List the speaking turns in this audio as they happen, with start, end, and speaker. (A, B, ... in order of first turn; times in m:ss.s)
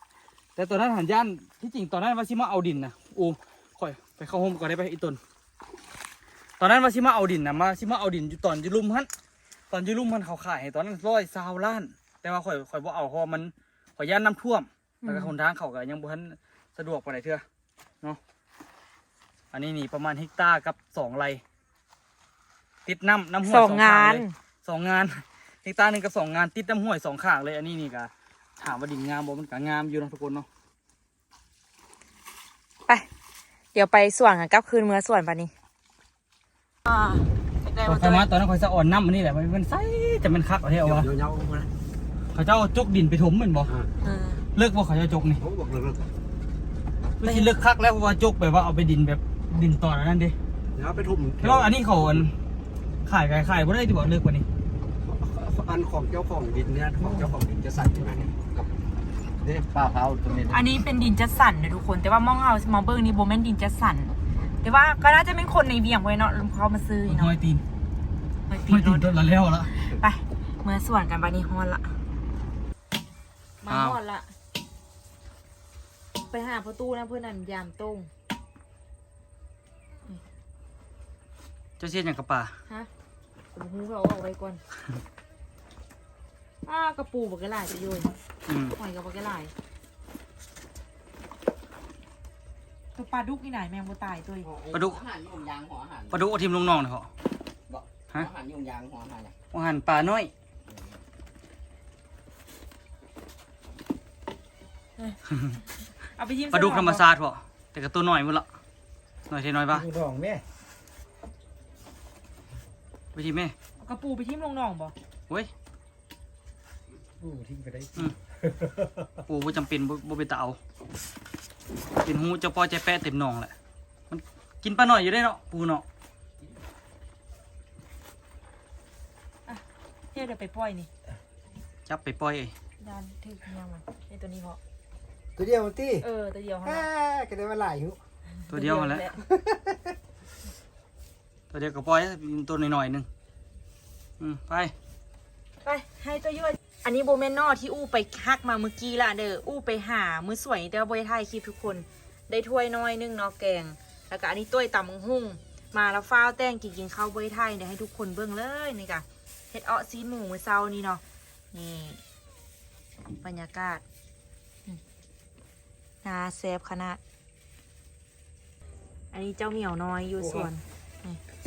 0:00.6-0:05.2 A
0:06.6-0:09.1 A
0:09.7-0:17.4 A
0:15.0-0:15.3 B
0:19.5-0:21.4 A
0:22.8-0:30.4 A
0:23.4-0:24.3 B
0:33.7-0:35.5 B
0:36.8-0:38.2 B
0:37.8-0:41.1 A
0:40.8-0:41.7 C
0:42.3-0:43.7 A
0:44.0-0:44.4 B
0:44.5-0:45.4 A
0:45.4-0:46.1 C
0:47.2-0:50.4 A
0:47.2-0:47.5 B
0:50.7-0:52.3 C
0:51.4-0:52.3 A
0:53.0-0:54.4 A
0:55.0-0:58.7 C
0:59.4-1:00.7 C
1:00.5-1:07.3 B
1:07.0-1:07.6 A
1:08.5-1:09.1 B
1:08.6-1:09.7 A
1:09.7-1:11.9 B
1:13.6-1:14.3 B
1:13.7-1:14.0 A
1:16.3-1:18.1 B
1:21.8-1:22.5 A
1:23.5-1:24.6 B
1:26.6-1:28.1 B
1:28.5-1:28.8 A
1:28.8-1:29.5 B
1:32.9-1:34.5 B
1:34.4-1:36.3 D
1:34.7-1:35.0 A
1:36.1-1:37.1 A
1:37.7-1:39.4 D
1:39.5-1:40.3 A
1:40.6-1:41.0 D
1:46.1-1:47.0 B
1:46.5-1:48.4 A
1:49.3-1:49.9 A
1:49.7-1:50.4 C
1:53.1-1:53.5 A
1:53.8-1:54.9 B
1:57.2-1:59.2 C
1:59.3-2:00.6 A
2:02.0-2:03.5 A
2:04.1-2:05.8 A
2:10.1-2:10.9 B
2:11.9-2:12.5 A
2:12.8-2:14.6 B
2:15.4-2:16.0 C
2:16.0-2:16.9 B
2:16.6-2:18.0 C
2:18.4-2:19.2 B
2:18.5-2:19.1 A
2:19.2-2:19.9 C
2:21.5-2:23.1 A
2:24.2-2:24.7 A
2:25.6-2:42.0 B
2:43.2-2:43.8 B
2:46.0-2:47.0 B
2:49.1-2:51.2 B
2:50.2-2:50.5 A